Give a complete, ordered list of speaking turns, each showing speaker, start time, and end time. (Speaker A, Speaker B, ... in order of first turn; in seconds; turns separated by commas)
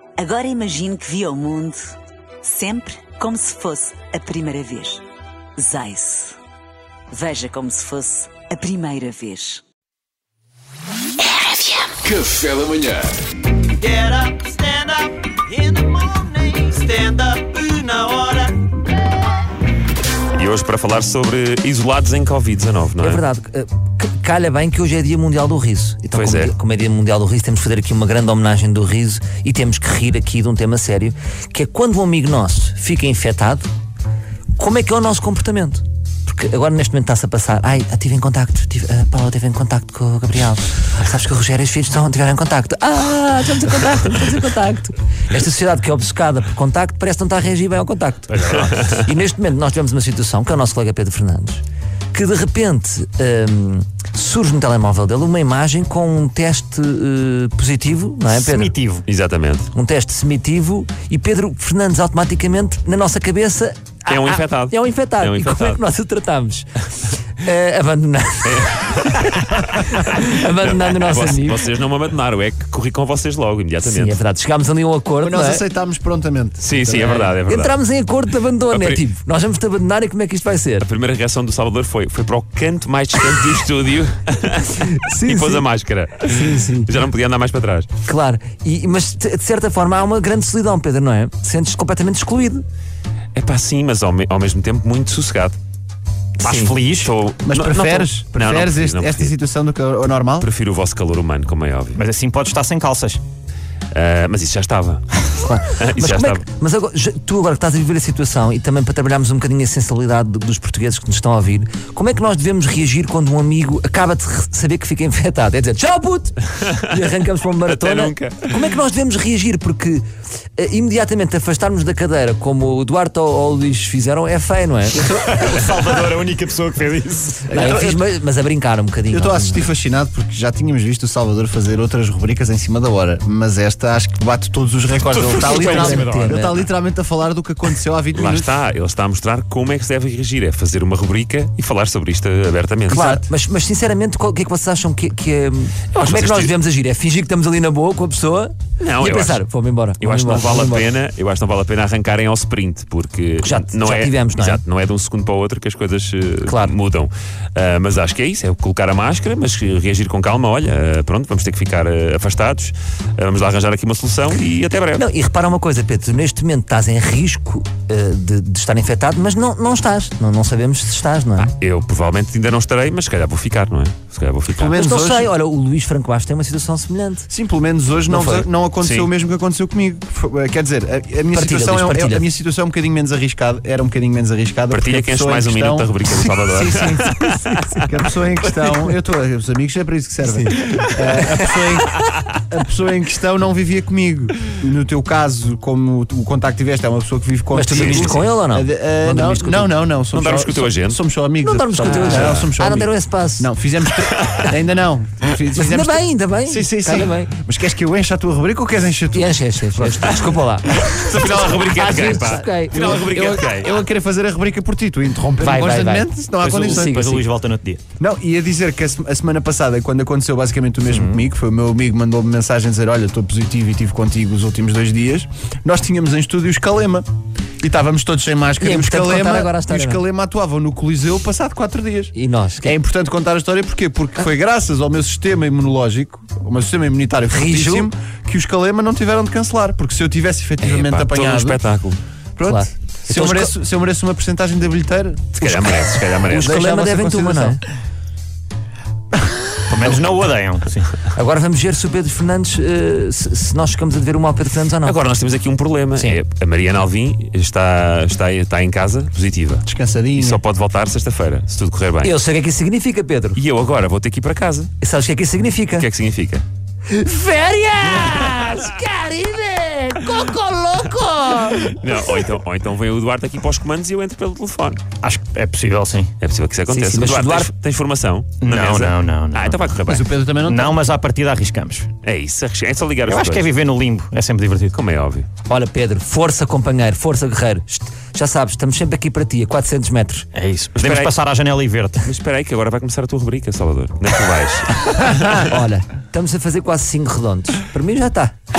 Speaker A: 0.2-5.0, Speaker A: 5.6-6.4, Speaker A: 7.1-9.6, Speaker B: 13.8-18.7, Speaker C: 20.4-23.2, Speaker D: 23.0-33.7, Speaker C: 26.1-26.5, Speaker D: 34.6-58.7, Speaker E: 48.3-48.8, Speaker E: 58.3-59.0, Speaker C: 59.1-59.7, Speaker D: 59.7-66.7, Speaker C: 64.1-65.8, Speaker D: 67.4-71.7, Speaker C: 68.4-74.2, Speaker D: 73.8-75.6, Speaker F: 75.2-77.3, Speaker C: 76.6-77.8, Speaker D: 77.2-80.9, Speaker C: 78.7-79.0, Speaker C: 80.8-87.9, Speaker F: 85.1-85.7, Speaker D: 86.3-86.9, Speaker D: 88.1-92.6, Speaker C: 93.3-95.6, Speaker E: 96.4-97.2, Speaker D: 96.5-96.7, Speaker C: 96.5-99.4, Speaker F: 97.4-100.5, Speaker C: 100.4-102.0, Speaker E: 102.0-103.2, Speaker C: 103.9-106.5, Speaker D: 105.4-120.0, Speaker C: 117.7-118.5, Speaker D: 120.6-125.1, Speaker E: 125.0-127.5, Speaker F: 127.5-128.0, Speaker D: 127.5-129.7, Speaker F: 129.1-138.5, Speaker E: 135.1-136.4, Speaker D: 135.3-136.7, Speaker C: 138.1-143.0, Speaker F: 142.9-143.2, Speaker D: 142.9-151.0, Speaker C: 146.0-146.5, Speaker C: 148.8-149.4, Speaker C: 150.0-165.1, Speaker D: 153.4-154.6, Speaker D: 156.4-156.8, Speaker D: 164.9-171.5, Speaker C: 171.4-174.8, Speaker F: 174.5-175.3, Speaker D: 174.8-177.3, Speaker F: 177.3-210.2, Speaker D: 178.1-178.5, Speaker C: 178.8-179.1, Speaker D: 181.3-182.3, Speaker C: 184.7-187.5, Speaker D: 186.6-187.8, Speaker D: 188.5-188.9, Speaker D: 190.2-191.9, Speaker D: 197.5-199.8, Speaker C: 197.7-198.2, Speaker C: 200.1-201.0, Speaker D: 201.4-203.6, Speaker C: 201.7-202.5, Speaker C: 204.2-204.5, Speaker D: 205.5-207.3, Speaker D: 209.1-212.9, Speaker C: 210.1-213.8, Speaker F: 212.7-216.9, Speaker D: 215.4-216.1, Speaker E: 216.4-217.8, Speaker D: 216.7-217.2, Speaker F: 218.0-227.1, Speaker E: 220.8-221.3, Speaker F: 227.6-241.7, Speaker D: 228.6-230.1, Speaker D: 232.1-232.8, Speaker D: 237.3-237.9, Speaker C: 240.6-242.0, Speaker F: 242.4-247.6, Speaker D: 242.4-243.6, Speaker C: 245.4-246.6, Speaker D: 246.2-247.6, Speaker E: 249.7-251.1, Speaker D: 251.1-255.0, Speaker C: 254.8-259.6, Speaker F: 259.6-260.4, Speaker C: 260.2-262.1, Speaker D: 262.0-263.4, Speaker C: 263.4-264.7, Speaker D: 264.8-265.9, Speaker C: 265.7-266.4, Speaker D: 266.9-272.4, Speaker C: 271.8-274.9, Speaker E: 275.0-276.1, Speaker C: 276.2-280.1, Speaker D: 276.7-277.5, Speaker E: 278.4-279.8, Speaker F: 279.9-280.8, Speaker E: 280.4-281.9, Speaker C: 282.0-283.5, Speaker E: 283.1-284.8, Speaker C: 284.7-285.3, Speaker D: 285.5-290.3, Speaker E: 290.3-292.1, Speaker C: 290.8-291.1, Speaker C: 292.0-295.6, Speaker D: 295.4-298.4